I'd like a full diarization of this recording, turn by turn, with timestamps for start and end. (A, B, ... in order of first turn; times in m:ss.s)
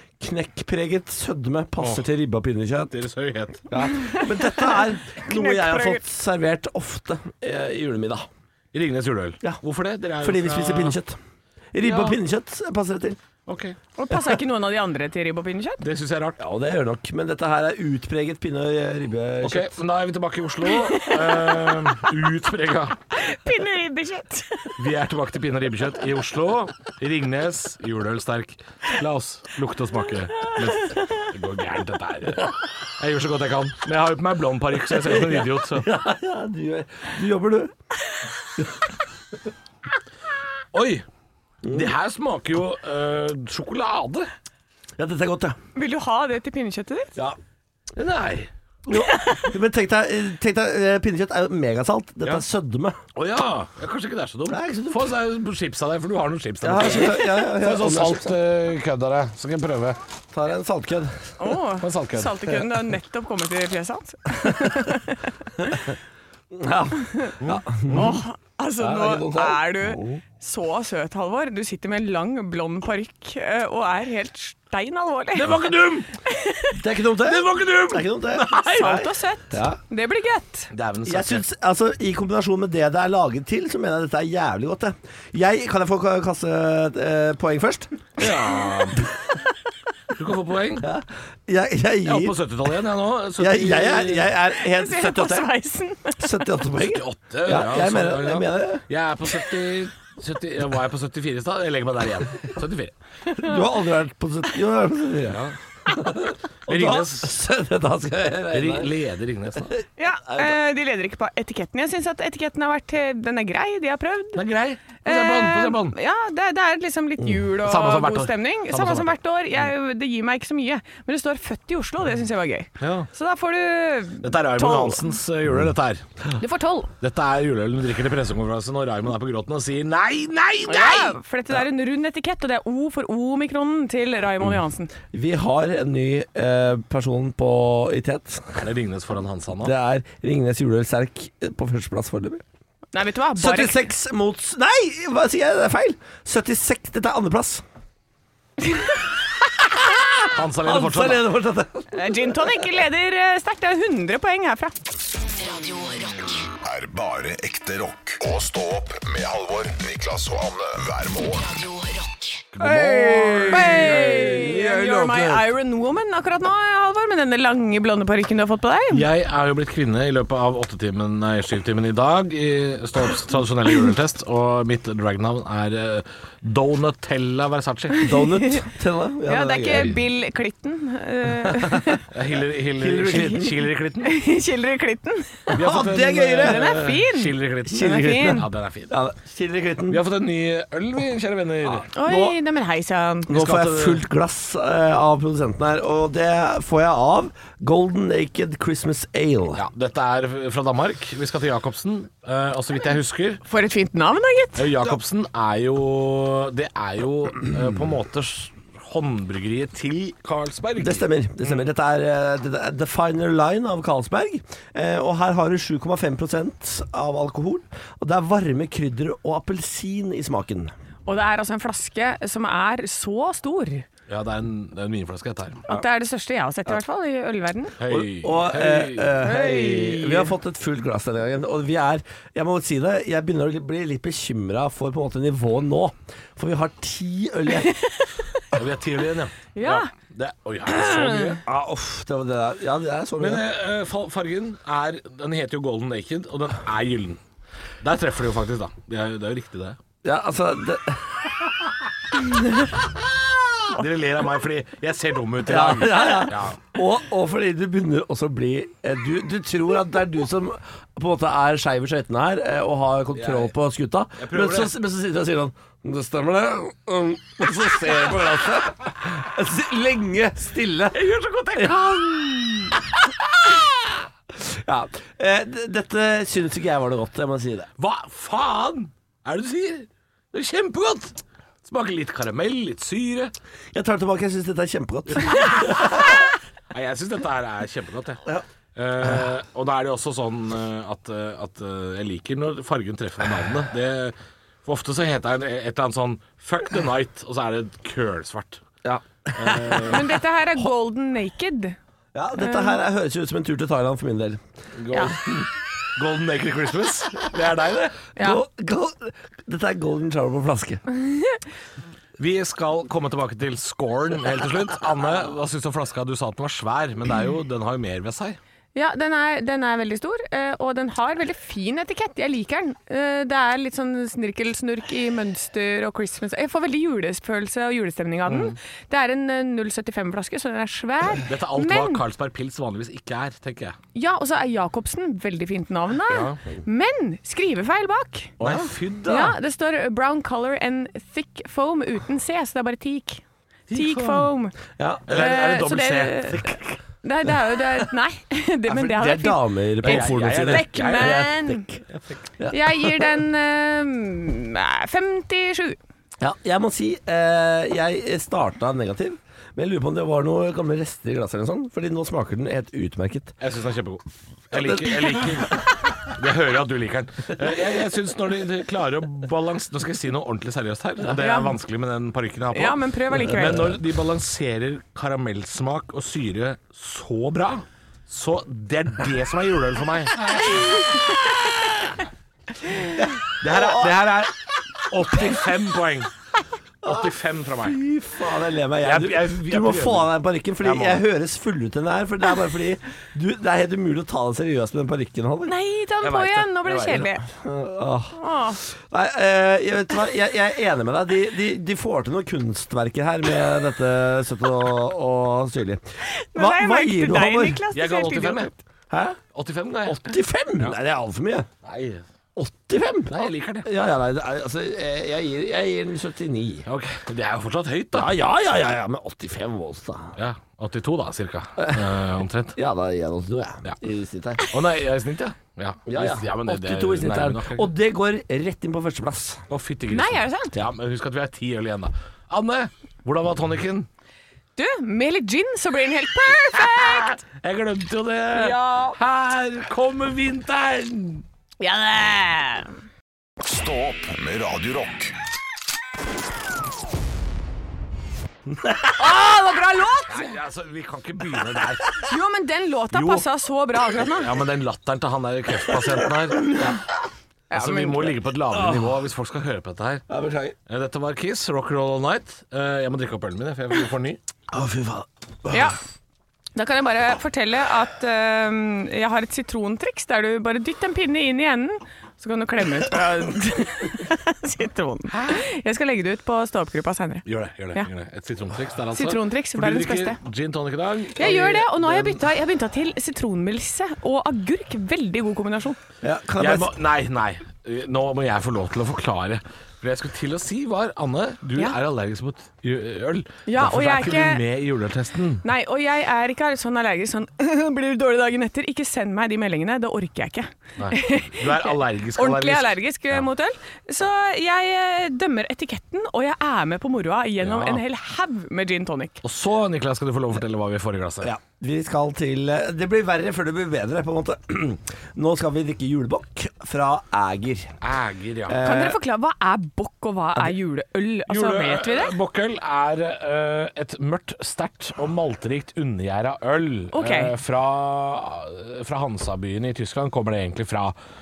0:00.2-0:02.9 A
0:01.8-0:02.0 B
0:02.9-0:03.7 B
0:03.7-0:08.3 A
0:03.8-0:06.0 C
0:08.7-0:11.0 B
0:10.2-0:11.2 A
0:11.7-0:13.2 A
0:11.8-0:12.2 B
0:13.5-0:13.8 B
0:14.0-0:15.8 C
0:15.8-0:16.4 B
0:16.4-0:19.8 A
0:19.4-0:23.0 B
0:20.7-0:21.7 C
0:23.1-0:24.7 C
0:24.8-0:35.9 B
0:34.9-0:37.7 A
0:40.7-0:41.0 B
0:41.6-0:41.9 A
0:41.6-0:44.3 B
0:45.0-0:45.6 A
0:45.7-0:47.1 C
0:48.0-0:48.5 B
0:48.9-0:53.0 A
0:53.1-1:00.0 B
0:54.5-0:55.1 A
0:56.6-0:58.4 A
1:00.3-1:01.1 A
1:01.4-1:05.8 C
1:01.8-1:02.4 B
1:06.5-1:08.2 A
1:07.4-1:08.0 B
1:07.9-1:15.7 C
1:08.8-1:09.6 A
1:15.4-1:16.1 B
1:16.2-1:16.8 C
1:16.7-1:19.8 A
1:17.2-1:19.1 B
1:18.7-1:20.7 C
1:20.7-1:21.4 B
1:21.0-1:27.9 A
1:28.2-1:29.0 B
1:30.1-1:30.9 B
1:30.8-1:32.4 A
1:32.0-1:34.3 B
1:33.4-1:35.5 A
1:34.5-1:36.4 C
1:36.2-1:38.8 A
1:36.8-1:42.9 B
1:43.4-1:48.9 A
1:45.2-1:45.6 B
1:46.7-1:47.3 B
1:48.5-1:49.7 B
1:50.0-1:54.4 C
1:50.3-1:50.6 A
1:54.3-1:56.0 B
1:55.0-2:05.1 C
1:57.6-1:59.2 B
2:02.8-2:03.1 B
2:04.2-2:06.0 B
2:06.4-2:06.9 C
2:07.0-2:11.2 B
2:10.7-2:14.9 C
2:15.1-2:18.6 A
2:18.6-2:19.7 B
2:19.6-2:22.4 A
2:22.9-2:23.8 C
2:23.3-2:27.6 A
2:29.9-2:32.4 A
2:30.3-2:31.3 B
2:31.9-2:34.7 C
2:35.1-2:36.5 D
2:36.6-2:41.4 E
2:41.2-2:42.5 D
2:42.5-2:44.5 B
2:42.6-2:45.5 A
2:43.4-2:49.0 C
2:48.9-2:58.1 B
2:58.0-2:58.6 C
2:58.0-2:59.9 A
2:59.3-3:02.0 C
3:01.4-3:02.0 A
3:02.1-3:04.1 B
3:02.8-3:03.6 A
3:04.0-3:05.5 C
3:05.5-3:06.8 A
3:05.5-3:09.0 B
3:06.4-3:08.4 C
3:07.7-3:10.0 A
3:09.9-3:11.9 B
3:11.9-3:13.3 C
3:12.0-3:12.4 A
3:13.3-3:19.6 A
3:13.3-3:14.0 B
3:19.5-3:23.4 B
3:23.5-3:24.7 C
3:24.6-3:31.0 B
3:30.8-3:40.7 A
3:41.0-3:43.9 C
3:44.1-3:45.6 B
3:45.7-3:47.8 C
3:47.8-3:49.2 B
3:47.8-3:57.7 A
3:49.2-3:50.3 C
3:58.5-4:01.4 B
3:59.5-3:59.9 C
4:00.9-4:03.4 A
4:03.2-4:07.2 B
4:07.8-4:09.8 B
4:10.0-4:11.2 A
4:13.7-4:16.6 B
4:15.4-4:31.7 A
4:23.1-4:23.5 B
4:24.2-4:24.8 B
4:30.9-4:32.8 B
4:33.5-4:33.7 A
4:34.3-4:37.7 A
4:37.8-4:43.3 B
4:43.7-4:45.8 A
4:45.2-4:46.2 B
4:46.7-4:58.6 B
4:58.8-5:00.0 A
4:59.3-5:00.1 B
4:59.8-5:01.8 C
5:02.1-5:04.4 A
5:02.4-5:02.8 C
5:04.8-5:08.0 B
5:08.2-5:10.8 A
5:10.9-5:11.4 C
5:12.2-5:18.4 B
5:18.7-5:32.0 C
5:28.3-5:28.5 B
5:31.2-5:33.8 B
5:33.9-5:38.3 C
5:36.1-5:36.4 B
5:38.4-5:38.7 A
5:38.4-5:39.4 B
5:39.1-5:44.6 C
5:43.7-5:44.3 B
5:44.8-5:45.0 A
5:45.1-5:46.8 B
5:45.1-5:51.7 C
5:48.7-5:51.7 A
5:49.8-5:51.3 B
5:51.9-5:52.2 B
5:52.4-5:53.1 A
5:52.5-5:55.8 C
5:56.2-6:03.3 A
6:03.4-6:20.7 B
6:04.5-6:05.3 A
6:11.2-6:11.5 C
6:12.5-6:13.8 C
6:13.3-6:13.7 A
6:20.6-6:21.4 C
6:23.0-6:24.0 A
6:23.4-6:26.1 B
6:26.8-6:27.8 B
6:27.6-6:35.5 A
6:28.8-6:31.0 B
6:35.4-6:37.2 C
6:36.0-6:37.1 B
6:37.2-6:45.8 A
6:38.2-6:38.6 C
6:46.0-6:48.5 C
6:46.3-6:47.6 A
6:47.7-6:48.5 B
6:48.9-6:49.2 A
6:49.3-6:50.0 B
6:49.8-6:51.5 A
6:51.6-6:52.0 B
6:52.4-6:56.7 A
6:53.1-6:53.7 B
6:56.7-6:58.1 B
6:57.9-7:00.2 A
7:00.2-7:02.6 B
7:02.6-7:04.6 A
7:04.5-7:07.7 B
7:05.9-7:09.4 A
7:09.5-7:13.9 B
7:09.9-7:10.6 C
7:14.6-7:17.2 C
7:16.5-7:21.2 B
7:18.3-7:19.0 C
7:21.6-7:22.7 C
7:23.4-7:25.1 E
7:28.6-7:28.9 A
7:29.0-7:30.3 C
7:30.1-7:32.0 B
7:32.0-7:34.3 C
7:32.9-7:33.3 B
7:34.0-7:36.7 B
7:37.5-7:38.2 C
7:37.5-7:40.0 B
7:38.5-7:39.0 A
7:40.1-7:40.5 A
7:40.7-7:44.2 B
7:44.5-7:45.7 A
7:45.5-7:45.8 C
7:46.5-7:57.9 C
7:55.1-7:55.4 B
7:57.2-8:01.7 B
7:58.9-8:00.2 C
8:01.2-8:05.8 C
8:01.8-8:02.2 A
8:06.0-8:06.7 A
8:06.4-8:15.4 B
8:13.4-8:14.4 C
8:15.4-8:29.2 C
8:20.8-8:23.2 B
8:27.4-8:27.8 B
8:29.2-8:31.3 B
8:31.2-8:37.8 A
8:37.8-8:38.6 B
8:38.5-8:39.0 A
8:38.6-8:42.1 C
8:41.3-8:50.9 B
8:46.9-8:47.3 C